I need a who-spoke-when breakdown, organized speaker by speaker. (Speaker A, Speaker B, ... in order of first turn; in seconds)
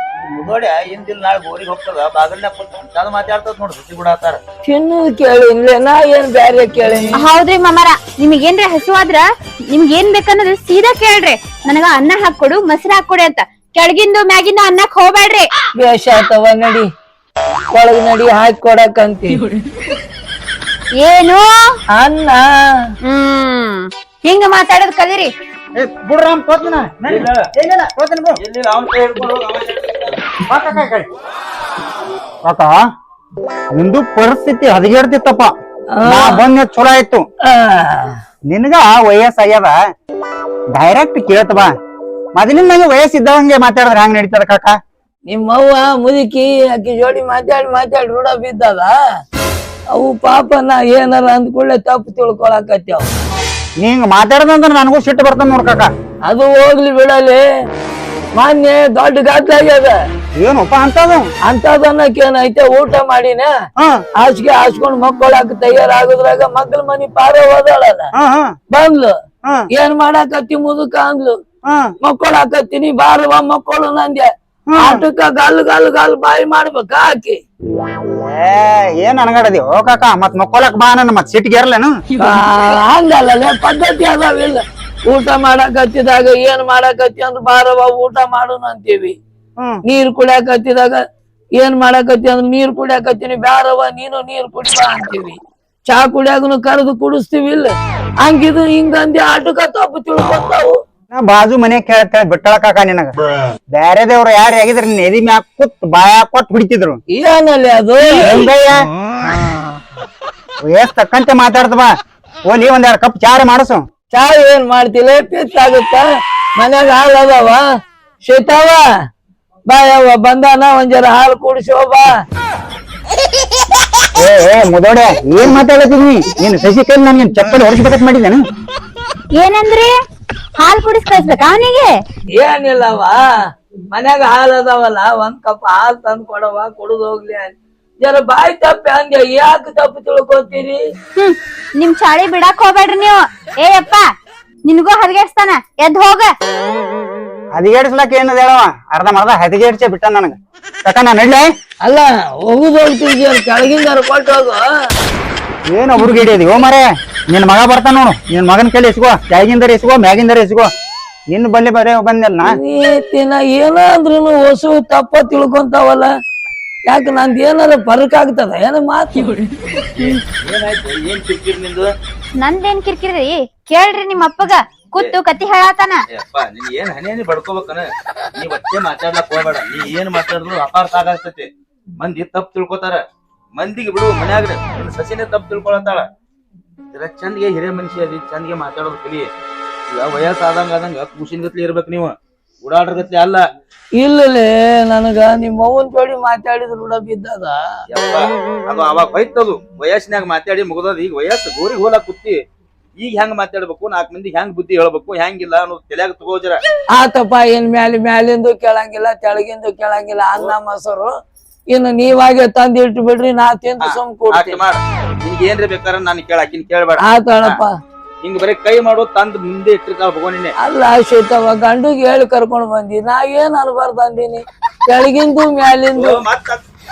Speaker A: 0.2-4.4, 27.1-27.5, 28.4-30.2, 169.9-171.9, 176.1-181.5, 182.0-183.0, 183.5-186.0, 186.9-189.3, 189.9-193.4, 197.9-202.3, 203.0-206.6, 213.8-217.6, 218.2-220.5, 225.9-226.6
Speaker B: 4.6-7.2, 15.8-16.8, 17.7-19.4, 22.0-22.4, 35.9-36.4, 37.4-38.1, 45.3-48.9, 49.9-53.0, 56.3-57.4, 58.4-59.9, 61.5-63.5, 64.2-68.1, 68.7-69.1, 69.7-71.3, 72.0-77.4, 82.2-89.1, 89.9-91.0, 91.6-100.7, 107.1-108.3, 114.1-116.0, 116.6-117.6, 118.2-118.8, 119.7-122.1, 132.4-133.2, 133.9-140.8, 151.8-154.6, 162.6-166.1, 166.9-169.3, 194.0-197.6, 206.9-211.1, 211.7-214.6, 217.0-217.7, 220.6-226.2
Speaker C: 7.2-15.5, 21.0-21.7, 23.0-25.3, 129.4-129.9, 130.6-132.0, 141.1-144.0, 144.7-146.3, 172.4-176.0
Speaker D: 25.8-28.4, 30.5-31.1, 33.8-35.5, 36.1-37.2, 38.5-39.7, 40.8-41.7, 42.4-44.7, 53.8-55.9, 60.4-61.2, 68.2-68.5, 74.7-75.0, 78.1-81.9, 101.1-103.1, 103.7-107.0, 108.2-108.8, 110.7-111.9, 112.5-113.8, 124.2-128.4, 147.5-150.3, 150.8-151.4, 155.7-160.7, 161.3-162.5